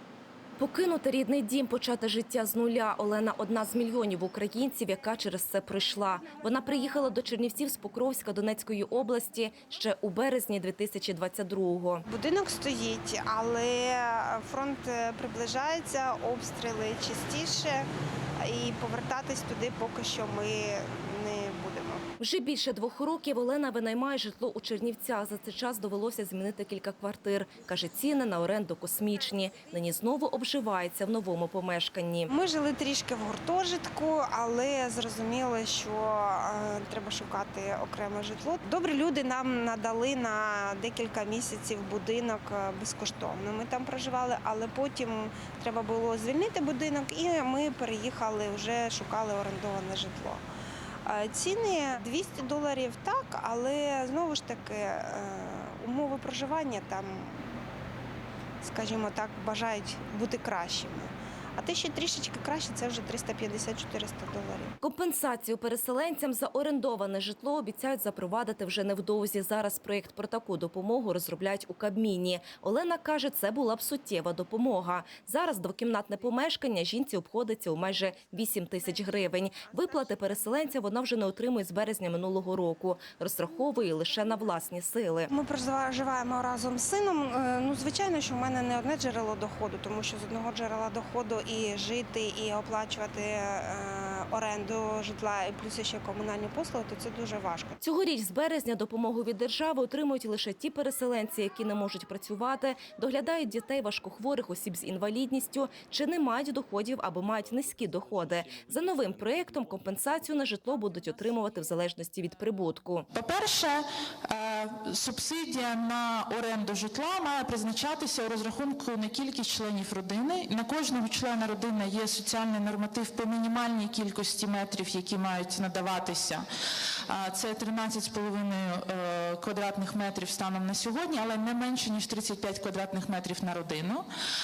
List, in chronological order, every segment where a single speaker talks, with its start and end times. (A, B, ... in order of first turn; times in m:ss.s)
0:00.6-0:12.0 A
0:12.1-0:17.9 B
0:18.4-0:22.0 B
0:22.2-0:32.3 A
0:32.3-0:50.4 B
0:51.0-0:57.6 B
0:58.6-1:04.7 B
1:04.8-1:25.3 A
1:19.2-1:19.7 B
1:25.3-1:37.8 B
1:37.8-1:53.1 A
1:53.1-2:06.4 C
2:07.0-2:14.0 C